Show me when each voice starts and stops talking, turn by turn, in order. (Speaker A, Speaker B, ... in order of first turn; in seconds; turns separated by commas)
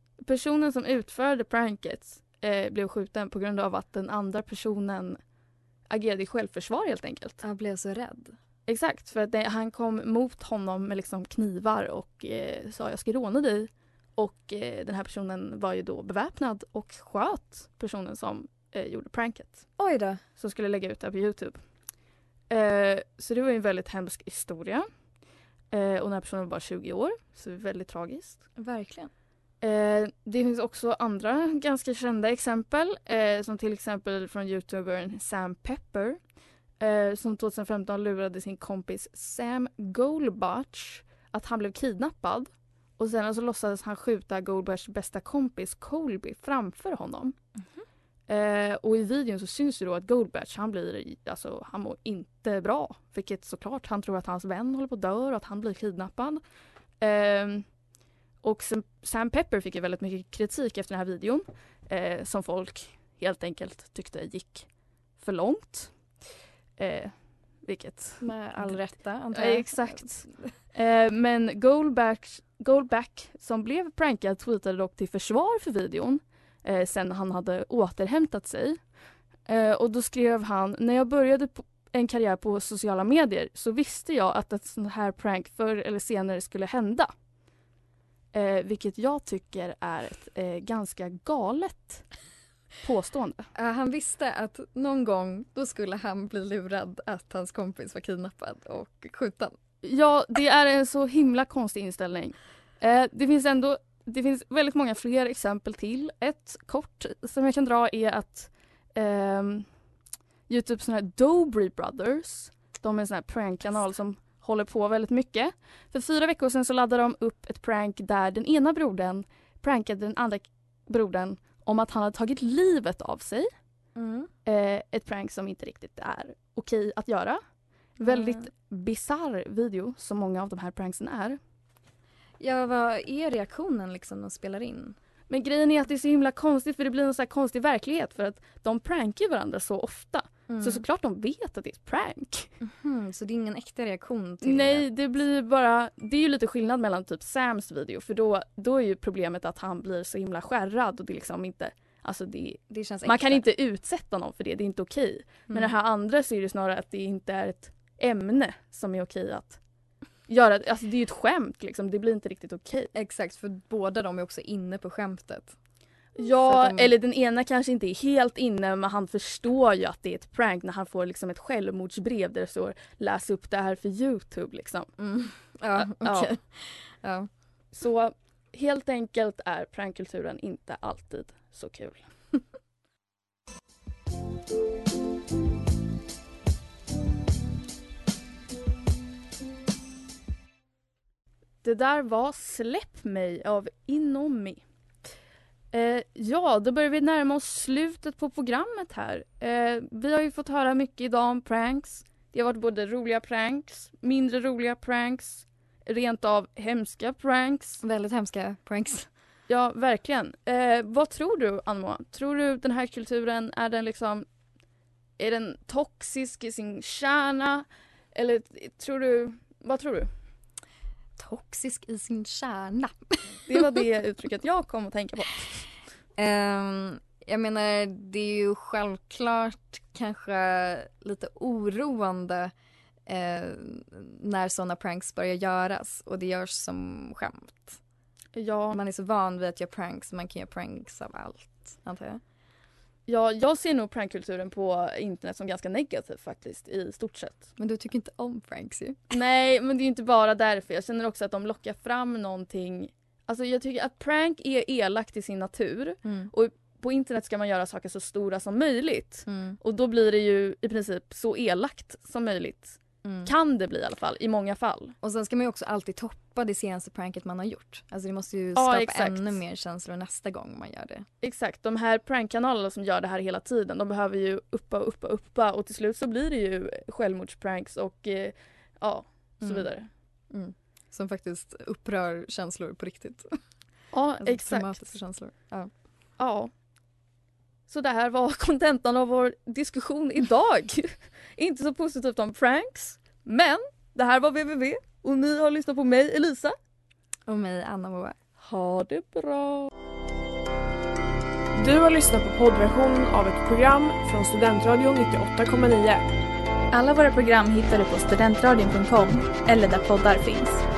Speaker A: 0.2-5.2, Speaker A: 5.9-7.4, Speaker B: 7.4-8.3, Speaker A: 8.7-19.7, Speaker B: 19.8-20.2, Speaker A: 20.4-21.6, Speaker A: 22.5-24.9, Speaker A: 25.7-28.4, Speaker B: 28.6-29.1, Speaker A: 29.6-36.2, Speaker A: 36.8-47.4, Speaker A: 48.3-56.4, Speaker A: 57.0-57.7, Speaker A: 58.4-66.0, Speaker A: 66.8-78.9, Speaker B: 68.2-70.5, Speaker A: 79.4-87.1, Speaker A: 88.3-92.1, Speaker A: 92.8-93.5, Speaker B: 93.5-99.6, Speaker A: 99.8-109.7, Speaker A: 110.5-123.5, Speaker B: 123.9-124.3, Speaker A: 124.5-127.4, Speaker A: 128.0-131.4, Speaker B: 128.0-128.5, Speaker B: 132.4-135.0, Speaker A: 135.3-142.5, Speaker B: 140.5-140.8, Speaker B: 142.6-144.9, Speaker A: 144.4-159.6, Speaker B: 152.7-153.4, Speaker B: 155.5-155.7, Speaker A: 160.3-162.9, Speaker B: 162.9-165.6, Speaker A: 166.2-174.9, Speaker B: 166.4-166.9, Speaker B: 175.0-177.3, Speaker A: 175.7-176.3, Speaker A: 177.7-182.0, Speaker A: 191.6-194.6, Speaker A: 195.7-207.8, Speaker B: 207.8-209.1, Speaker A: 209.5-214.3, Speaker A: 215.2-220.1, Speaker B: 221.2-223.8, Speaker A: 223.5-225.7, Speaker B: 226.2-232.5, Speaker B: 233.1-237.8, Speaker A: 238.3-238.8, Speaker B: 238.7-242.2, Speaker A: 243.1-247.5, Speaker B: 247.6-249.0, Speaker A: 249.1-264.9, Speaker B: 256.0-256.3, Speaker B: 259.2-259.6, Speaker B: 263.0-263.3, Speaker B: 265.0-271.1, Speaker A: 268.6-269.4, Speaker A: 271.2-279.9, Speaker B: 279.4-279.7, Speaker B: 280.3-283.4, Speaker A: 283.9-284.8, Speaker B: 284.2-285.7, Speaker A: 286.2-286.5, Speaker A: 287.7-296.6, Speaker B: 297.3-298.1, Speaker A: 298.4-299.7, Speaker C: 301.5-306.1, Speaker D: 306.7-310.6